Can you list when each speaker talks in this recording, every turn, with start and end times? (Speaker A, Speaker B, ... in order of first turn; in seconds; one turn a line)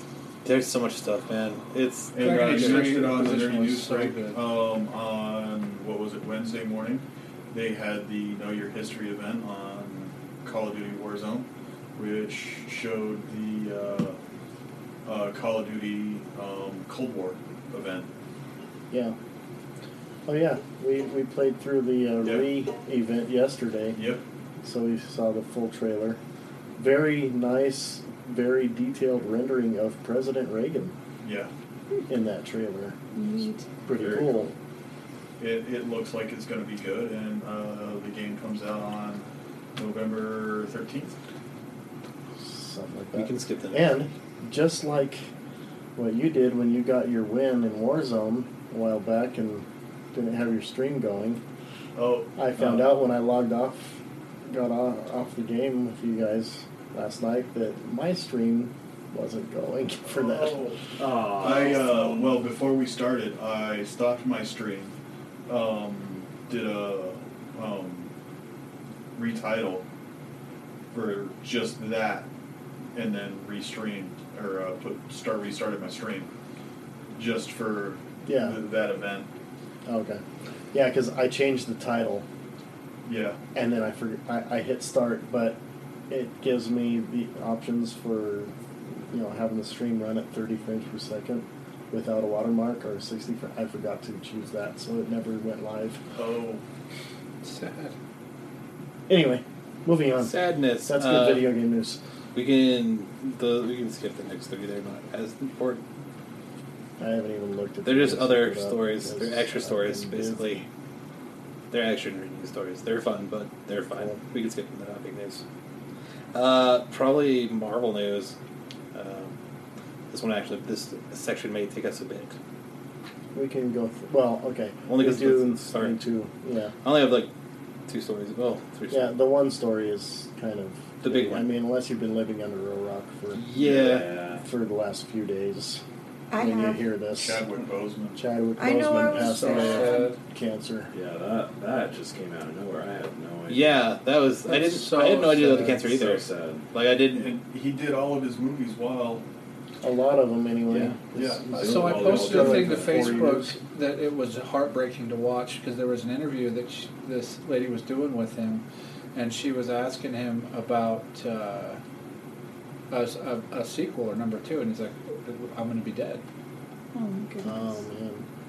Speaker A: 0.4-2.9
Speaker B: 2.1-14.2
Speaker C: 2.2-4.4
Speaker B: 15.0-18.1
Speaker D: 18.9-19.2
Speaker D: 20.2-24.0
Speaker B: 23.9-24.2
Speaker D: 24.6-26.2
Speaker D: 26.8-30.9
Speaker B: 31.2-31.5
Speaker D: 32.1-33.0
Speaker E: 33.1-33.7
Speaker D: 33.8-34.5
Speaker F: 34.0-34.5
Speaker B: 35.4-41.1
Speaker D: 42.4-45.3
Speaker A: 43.1-43.9
Speaker D: 46.0-51.4
Speaker B: 52.0-52.8
Speaker D: 52.3-60.7
Speaker B: 60.0-64.9
Speaker F: 61.0-61.9
Speaker B: 65.5-68.1
Speaker B: 69.1-69.8
Speaker B: 70.9-72.3
Speaker B: 72.9-76.3
Speaker B: 77.1-79.3
Speaker D: 78.2-78.6
Speaker D: 79.8-82.2
Speaker B: 83.0-83.4
Speaker D: 83.5-85.6
Speaker D: 86.1-96.0
Speaker B: 96.1-96.6
Speaker C: 97.4-97.9
Speaker D: 99.1-102.0
Speaker A: 100.2-101.5
Speaker A: 102.3-105.8
Speaker D: 107.0-110.7
Speaker A: 107.8-110.6
Speaker A: 111.7-115.4
Speaker D: 113.9-114.2
Speaker A: 116.3-118.3
Speaker A: 118.9-119.3
Speaker A: 120.1-122.3
Speaker D: 123.3-126.7
Speaker A: 124.9-126.0
Speaker A: 126.8-127.3
Speaker A: 127.9-129.1
Speaker D: 128.9-133.4
Speaker A: 131.0-131.5
Speaker A: 133.3-134.1
Speaker F: 133.5-134.4
Speaker D: 134.4-135.8
Speaker E: 136.3-136.8
Speaker D: 136.3-137.4
Speaker B: 137.1-138.2
Speaker D: 138.1-140.9
Speaker E: 138.6-140.1
Speaker C: 139.1-140.2
Speaker F: 140.9-143.8
Speaker A: 143.5-147.3
Speaker C: 144.5-145.8
Speaker F: 145.8-146.7
Speaker B: 147.1-149.2
Speaker D: 149.8-153.6
Speaker F: 150.7-151.0
Speaker B: 151.1-151.6
Speaker F: 151.5-153.3
Speaker C: 151.6-161.8
Speaker C: 162.9-166.2
Speaker E: 166.9-167.8
Speaker D: 167.4-168.2